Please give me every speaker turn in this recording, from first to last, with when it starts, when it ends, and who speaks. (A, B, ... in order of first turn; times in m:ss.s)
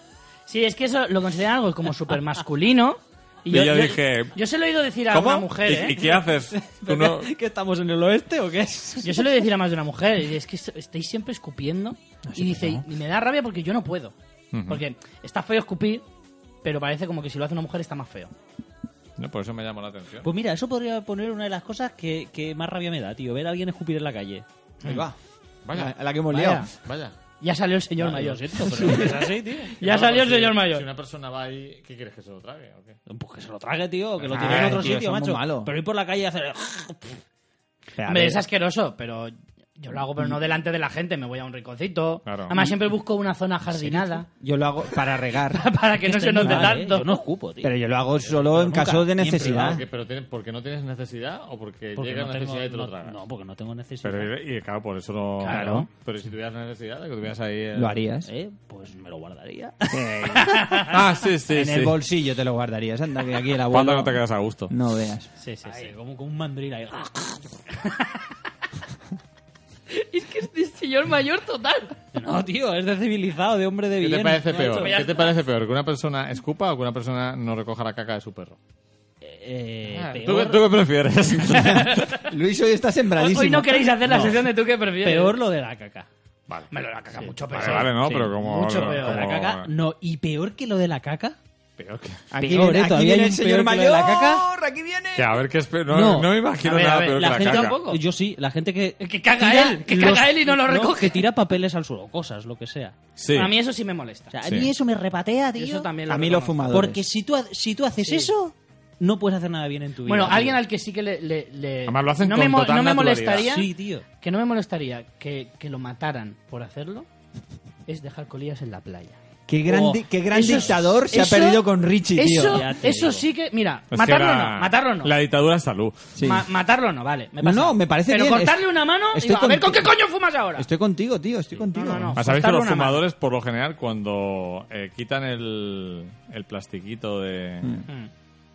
0:00.5-0:06.0 A
0:03.5-0:04.4 B
0:05.1-0:07.3 B
0:05.9-0:09.4 C
0:09.0-0:14.2 A
0:12.3-0:12.8 C
0:14.5-0:14.8 B
0:14.7-0:16.0 A
0:16.6-0:18.3 A
0:19.2-0:20.3 B
0:20.2-0:24.4 C
0:24.8-0:25.1 A
0:24.8-0:25.2 D
0:25.6-0:25.9 B
0:25.7-0:26.7 D
0:26.3-0:26.7 A
0:26.7-0:27.2 B
0:27.4-0:30.9 A
0:28.0-0:30.5 C
0:29.8-0:33.0 B
0:33.1-0:37.2 C
0:34.2-0:35.0 B
0:34.3-0:35.7 D
0:38.0-0:38.4 D
0:38.0-0:44.3 A
0:42.3-0:42.6 B
0:43.8-0:44.1 C
0:44.3-0:45.7 D
0:45.5-0:47.2 A
0:46.0-0:47.7 C
0:46.4-0:46.8 D
0:47.6-0:49.8 D
0:48.3-0:49.8 C
0:49.3-0:53.2 B
0:52.0-0:54.3 C
0:54.0-0:58.0 B
0:55.4-0:55.9 A
0:57.8-0:58.3 D
0:58.3-1:00.6 C
0:59.9-1:00.7 D
1:00.3-1:01.0 A
1:00.8-1:02.0 B
1:01.5-1:05.3 D
1:03.6-1:04.7 B
1:05.4-1:05.9 A
1:05.6-1:07.6 C
1:07.8-1:08.2 A
1:09.9-1:12.0 A
1:12.1-1:15.0 C
1:14.0-1:18.6 B
1:14.5-1:15.3 A
1:19.2-1:20.7 C
1:19.9-1:22.0 B
1:21.5-1:23.9 D
1:21.6-1:22.2 A
1:23.2-1:25.4 A
1:24.0-1:24.5 C
1:25.0-1:26.1 C
1:26.7-1:29.3 A
1:27.5-1:29.7 B
1:27.6-1:31.4 C
1:31.8-1:32.2 B
1:32.3-1:35.4 D
1:32.4-1:34.5 C
1:35.2-1:37.8 B
1:35.9-1:36.3 C
1:36.6-1:38.0 A
1:37.2-1:43.0 C
1:39.0-1:41.2 A
1:43.2-1:43.5 B
1:43.3-1:44.4 A
1:44.3-1:45.9 C
1:44.4-1:44.7 B
1:45.6-1:46.8 A
1:46.1-1:47.0 D
1:46.7-1:50.6 C
1:48.0-1:48.3 A
1:50.1-1:53.7 A
1:51.9-1:53.5 B
1:53.4-1:54.0 C
1:54.2-1:57.1 A
1:57.9-1:59.2 A
1:59.5-2:02.6 D
1:59.7-2:00.7 C
2:00.3-2:05.1 A
2:02.4-2:03.3 C
2:03.9-2:06.1 B
2:06.2-2:06.4 D
2:06.2-2:10.7 A
2:07.4-2:10.0 D
2:10.6-2:12.2 D
2:11.7-2:13.0 A
2:12.2-2:17.8 B